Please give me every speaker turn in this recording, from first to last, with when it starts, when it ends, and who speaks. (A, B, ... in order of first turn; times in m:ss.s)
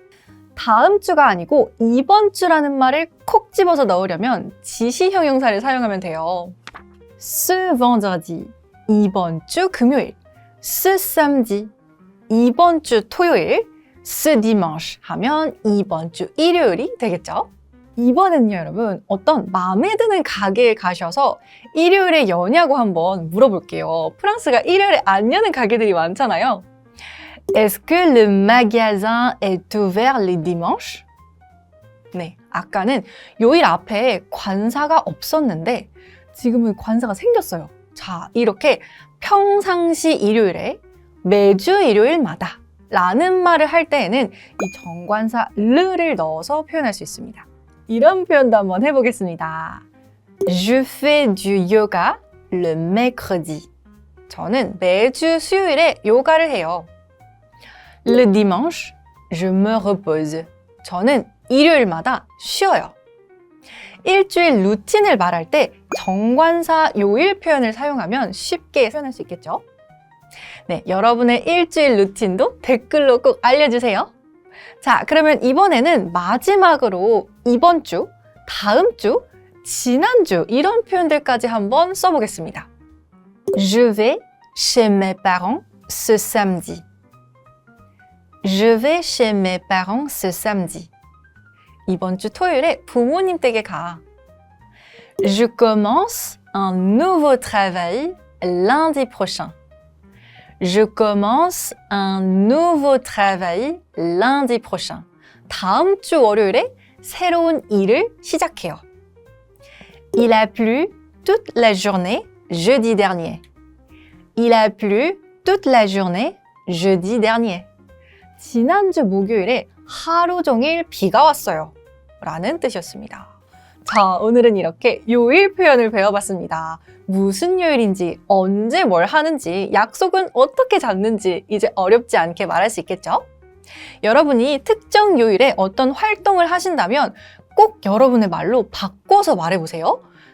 0:00.6-0:06.6 A
0:07.2-0:11.7 A
0:12.3-0:26.6 A
0:27.5-0:31.0 A
0:32.1-0:49.8 A
0:50.5-0:53.7 A
0:54.3-0:56.9 A
0:58.0-1:03.0 A
1:04.0-1:09.6 A
1:10.7-1:14.1 A
1:14.8-1:22.7 A
1:23.6-1:26.8 A
1:28.4-1:30.9 A
1:31.9-1:34.0 A
1:35.2-1:39.6 A
1:40.6-1:48.8 A
1:50.2-1:53.4 A
1:54.4-1:57.7 A
1:58.4-2:03.3 A
2:03.9-2:13.2 A
2:14.0-2:20.0 A